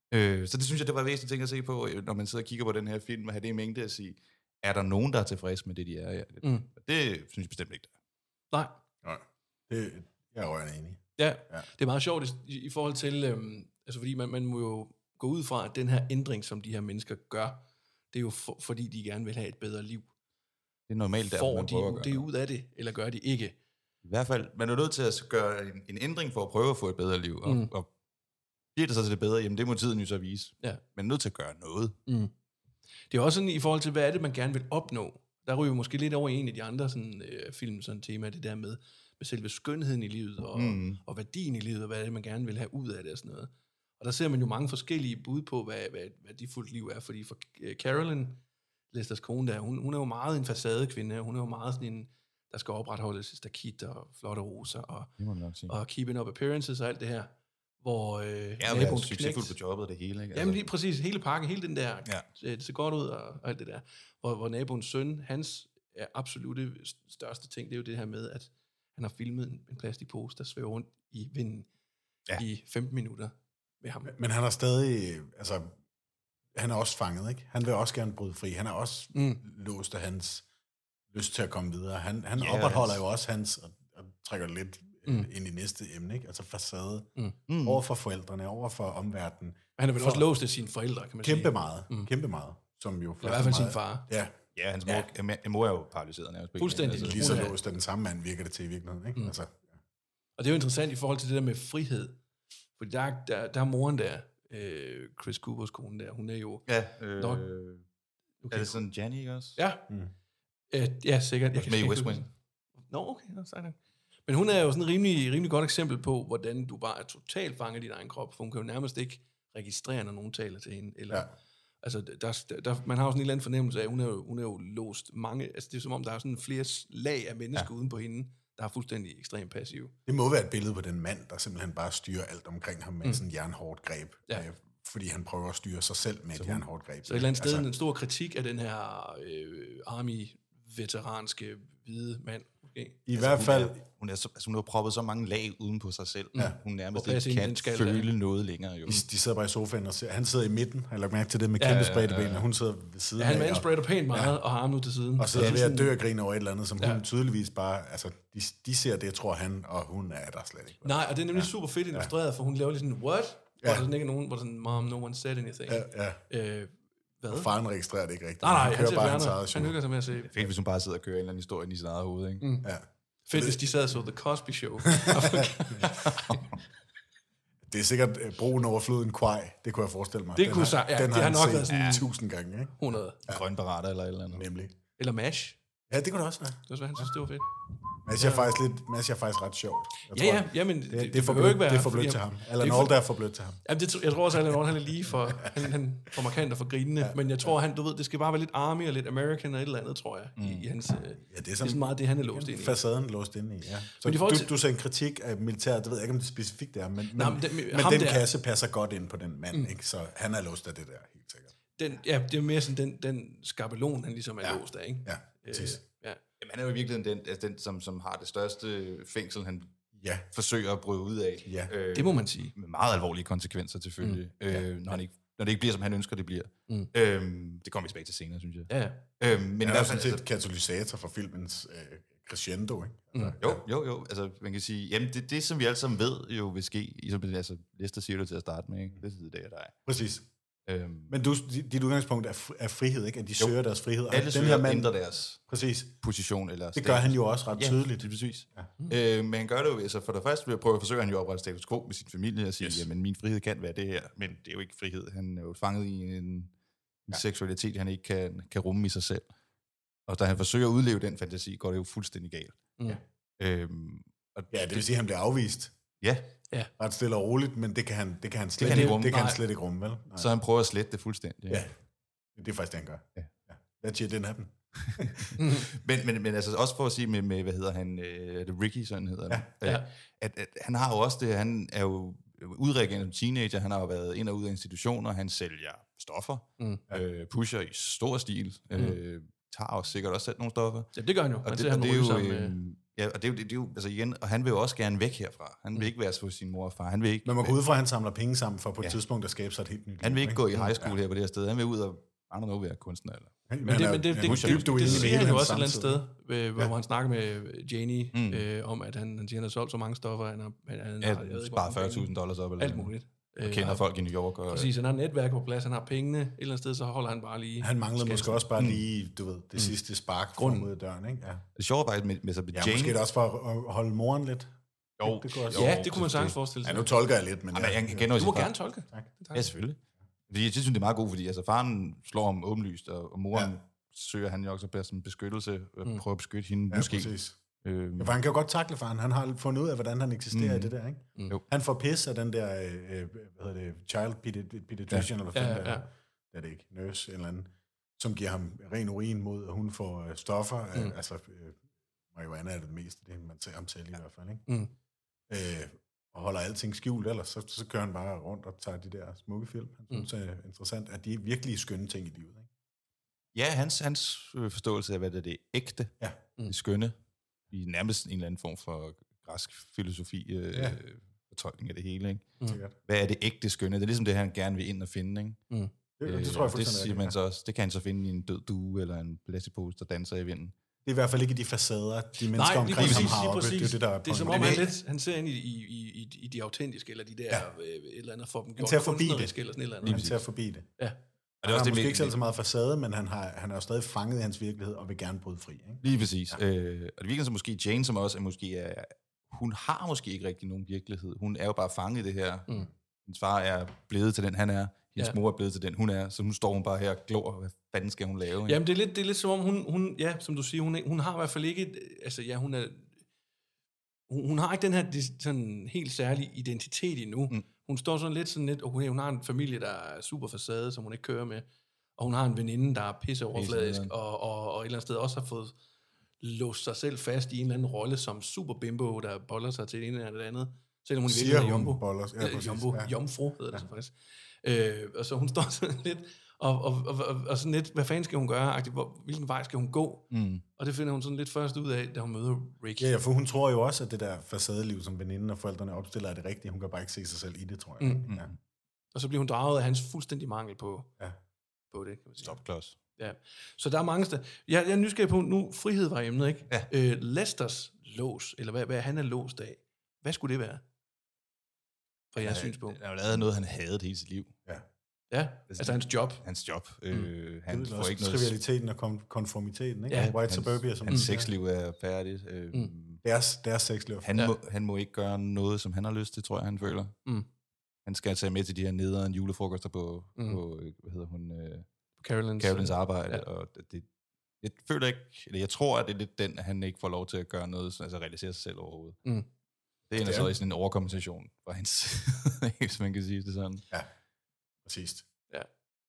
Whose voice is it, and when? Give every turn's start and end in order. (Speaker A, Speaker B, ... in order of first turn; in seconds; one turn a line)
Speaker A: 0.1-7.9
Speaker B: 8.5-8.8
Speaker C: 9.0-11.7
Speaker B: 11.2-20.1
Speaker A: 20.9-22.3
Speaker B: 21.3-23.6
Speaker A: 24.0-27.9
Speaker B: 27.4-27.7
Speaker A: 28.8-32.0
Speaker B: 33.1-48.4
Speaker A: 40.5-41.0
Speaker B: 48.9-55.1
Speaker A: 55.2-55.8
Speaker B: 55.7-59.5
Speaker A: 58.6-60.6
Speaker B: 60.3-71.7
Speaker B: 72.3-74.1
Speaker C: 74.1-75.7
Speaker C: 76.5-80.5
Speaker B: 79.1-79.4
Speaker C: 81.1-87.1
Speaker A: 82.3-83.0
Speaker A: 87.5-87.8
Speaker C: 87.6-90.3
Speaker B: 89.8-92.1
Speaker C: 91.2-94.3
Speaker B: 93.2-94.1
Speaker A: 94.6-97.5
Speaker B: 96.6-97.5
Speaker C: 96.9-99.7
Speaker B: 100.4-102.2
Speaker B: 102.8-107.5
Speaker A: 106.7-107.8
Speaker B: 108.4-108.8
Speaker A: 108.5-109.6
Speaker B: 109.6-109.8
Speaker B: 110.7-112.3
Speaker A: 111.6-112.3
Speaker B: 112.9-121.3
Speaker B: 121.8-129.9
Speaker C: 130.1-137.7
Speaker A: 136.3-136.6
Speaker B: 137.1-143.0
Speaker C: 143.1-143.8
Speaker A: 143.1-149.0
Speaker B: 146.4-148.1
Speaker C: 148.8-154.3
Speaker B: 151.6-151.9
Speaker A: 151.6-152.5
Speaker B: 153.2-155.9
Speaker C: 155.2-162.1
Speaker A: 155.4-155.6
Speaker B: 160.8-167.5
Speaker C: 165.7-166.2
Speaker C: 167.3-169.8
Speaker B: 168.4-170.4
Speaker A: 170.2-172.4
Speaker B: 172.4-172.7
Speaker C: 172.6-173.7
Speaker B: 173.2-176.2
Speaker C: 174.9-175.9
Speaker A: 175.9-176.6
Speaker C: 177.7-183.4
Speaker B: 180.4-182.1
Speaker A: 181.7-182.0
Speaker B: 182.8-183.2
Speaker A: 183.3-184.5
Speaker C: 184.3-184.8
Speaker B: 185.0-185.6
Speaker C: 185.9-187.1
Speaker B: 186.7-187.4
Speaker C: 188.0-193.6
Speaker B: 188.2-188.5
Speaker B: 190.1-193.0
Speaker B: 193.6-202.8
Speaker C: 197.0-197.5
Speaker A: 200.4-200.7
Speaker C: 201.2-211.5
Speaker B: 204.0-204.5
Speaker B: 207.1-208.3
Speaker B: 211.8-216.2
Speaker C: 214.4-215.8
Speaker A: 216.4-219.7
Speaker C: 220.0-220.3
Speaker A: 220.3-230.2
Speaker C: 221.4-221.7
Speaker B: 221.9-222.5
Speaker B: 228.7-229.0
Speaker C: 229.6-233.6
Speaker A: 233.4-239.8
Speaker C: 239.8-240.3
Speaker A: 240.7-241.1
Speaker C: 241.1-246.0
Speaker A: 244.1-245.4
Speaker A: 246.0-256.5
Speaker C: 246.7-248.7
Speaker C: 252.6-252.9
Speaker A: 257.1-259.3
Speaker A: 260.1-262.7
Speaker A: 263.4-264.9
Speaker C: 264.5-265.7
Speaker A: 266.0-266.3
Speaker C: 266.8-270.3
Speaker A: 268.6-269.3
Speaker B: 268.6-269.4
Speaker A: 270.2-271.7
Speaker C: 272.3-275.3
Speaker A: 274.8-290.9
Speaker B: 275.4-275.7
Speaker B: 290.9-292.6
Speaker A: 291.4-297.6
Speaker C: 297.2-300.9
Speaker A: 300.0-303.4
Speaker C: 303.5-306.0
Speaker B: 303.7-313.8
Speaker A: 304.2-305.4
Speaker A: 308.1-308.4
Speaker A: 311.0-314.7
Speaker B: 314.5-318.4
Speaker C: 317.6-321.4
Speaker B: 320.4-320.7
Speaker A: 321.6-323.0
Speaker C: 322.5-325.7
Speaker A: 325.0-326.4
Speaker B: 325.5-326.9
Speaker C: 326.6-328.4
Speaker A: 327.5-328.5
Speaker B: 328.2-329.5
Speaker A: 329.3-329.8
Speaker A: 330.3-338.1
Speaker C: 336.7-337.4
Speaker C: 338.0-351.6
Speaker A: 340.3-340.7
Speaker B: 345.3-345.8
Speaker C: 352.1-354.5
Speaker B: 354.5-354.7
Speaker C: 355.3-362.5
Speaker A: 363.3-365.9
Speaker A: 366.5-366.9
Speaker A: 367.5-375.4
Speaker C: 370.5-370.8
Speaker C: 372.5-372.7
Speaker C: 376.0-377.2
Speaker A: 376.0-380.6
Speaker C: 380.8-384.7
Speaker B: 382.3-390.0
Speaker A: 382.8-383.2
Speaker A: 384.2-384.6
Speaker C: 388.6-390.7
Speaker A: 389.8-390.2
Speaker A: 391.4-392.2
Speaker C: 391.4-396.4
Speaker A: 395.8-402.5
Speaker A: 403.1-408.6
Speaker B: 408.4-413.0
Speaker B: 414.1-421.4
Speaker B: 422.0-425.6
Speaker A: 423.3-423.9
Speaker B: 426.2-442.9
Speaker C: 431.1-432.9
Speaker A: 440.1-440.4
Speaker C: 442.8-448.3
Speaker A: 448.1-448.3
Speaker B: 448.9-450.9
Speaker B: 451.7-452.3
Speaker A: 452.2-452.8
Speaker B: 453.0-460.6
Speaker B: 462.1-462.8
Speaker A: 462.2-464.3
Speaker B: 465.1-466.2
Speaker A: 465.5-468.3
Speaker C: 467.5-471.3
Speaker B: 469.9-470.1
Speaker A: 470.1-473.0
Speaker C: 473.0-474.2
Speaker A: 474.0-477.0
Speaker A: 477.9-481.7
Speaker B: 482.0-483.2
Speaker A: 482.4-483.9
Speaker A: 484.4-489.0
Speaker A: 489.9-493.6
Speaker C: 489.9-490.3
Speaker C: 494.6-495.1